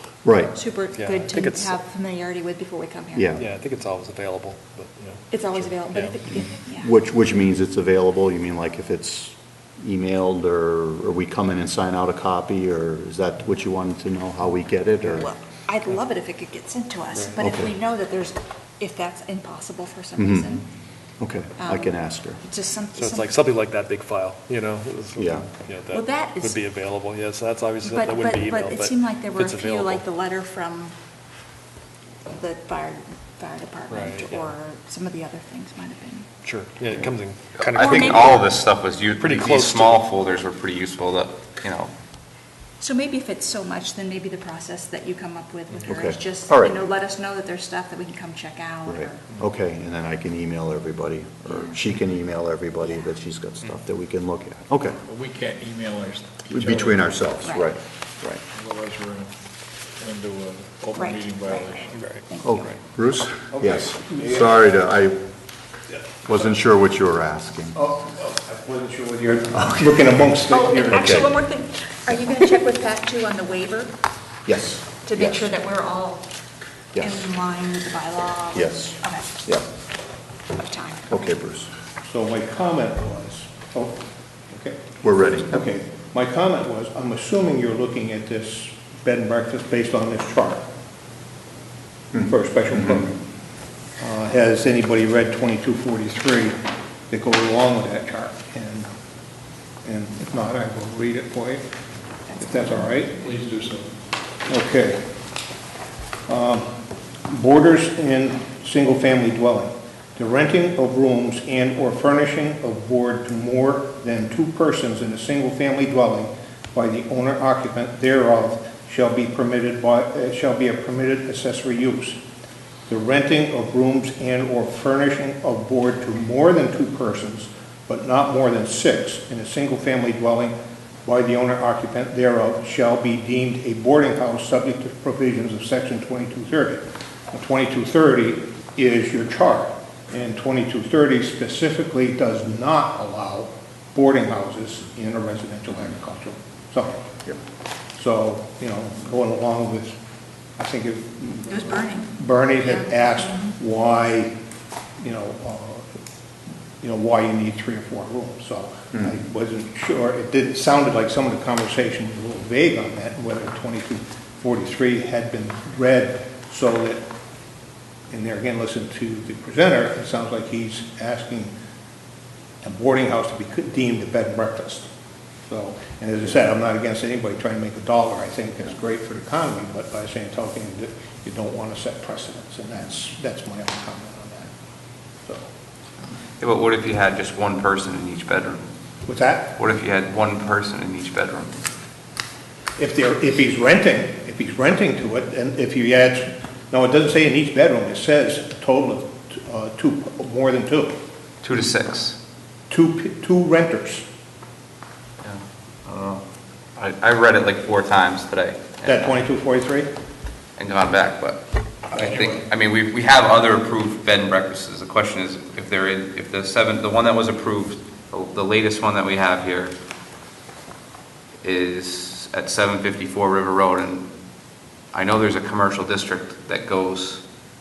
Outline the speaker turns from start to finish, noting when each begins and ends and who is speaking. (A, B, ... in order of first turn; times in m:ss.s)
0:00.2-0:00.6 A
0:00.5-0:03.4 B
0:00.9-0:01.8 C
0:03.2-0:03.5 A
0:03.4-0:06.3 C
0:05.3-0:06.9 B
0:06.7-0:15.3 A
0:15.1-0:20.7 B
0:17.4-0:17.7 A
0:20.2-0:20.6 A
0:21.2-0:22.4 A
0:21.6-0:23.3 B
0:23.0-0:30.0 C
0:25.2-0:25.5 A
0:25.9-0:26.6 B
0:27.9-0:31.0 B
0:32.3-0:36.3 B
0:33.9-0:34.5 C
0:36.4-0:38.5 C
0:37.6-0:41.9 D
0:37.8-0:38.5 B
0:39.2-0:40.0 C
0:42.8-0:49.3 B
0:45.9-0:46.8 A
0:48.9-0:55.0 A
0:51.5-0:51.8 B
0:55.0-0:57.1 E
0:56.5-0:58.4 A
0:57.4-0:57.7 B
0:58.5-0:59.3 E
1:00.0-1:02.2 E
1:01.0-1:02.7 B
1:02.0-1:02.7 C
1:02.4-1:05.2 A
1:03.5-1:04.6 F
1:06.2-1:07.8 A
1:07.7-1:11.2 F
1:10.5-1:13.9 B
1:10.9-1:11.3 A
1:14.5-1:15.5 A
1:15.0-1:16.2 B
1:16.9-1:17.2 A
1:17.0-1:19.3 B
1:18.6-1:19.6 A
1:20.5-1:21.3 B
1:21.1-1:21.7 A
1:22.0-1:24.0 F
1:24.5-1:24.9 F
1:25.0-1:25.6 A
1:25.4-1:30.6 F
1:32.1-1:33.2 F
1:34.0-1:36.6 F
1:37.1-1:38.9 F
1:39.8-1:41.6 F
1:42.3-1:42.8 B
1:42.4-1:43.3 F
1:43.2-1:43.9 E
1:44.5-1:45.0 F
1:46.3-1:46.7 F
1:47.3-2:02.2 F
2:02.9-2:27.1 F
2:28.0-2:30.0 F
2:30.6-2:34.3 F
2:31.5-2:33.6 B
2:35.0-2:35.9 F
2:36.8-2:47.0 F
2:48.1-2:51.5 F
2:52.6-2:54.9 F
2:55.5-3:04.5 F
3:06.4-3:08.7 D
3:09.1-3:09.6 F
3:09.6-3:11.5 D
3:12.8-3:21.0 F
3:21.4-3:22.2 D
3:22.7-3:24.0 F
3:25.2-3:26.2 D
3:26.8-3:29.2 D
3:28.8-3:29.9 F
3:30.6-3:31.4 D
3:31.9-3:32.5 E
3:31.9-3:39.7 D
3:41.4-3:44.1 D
3:44.9-3:47.2 D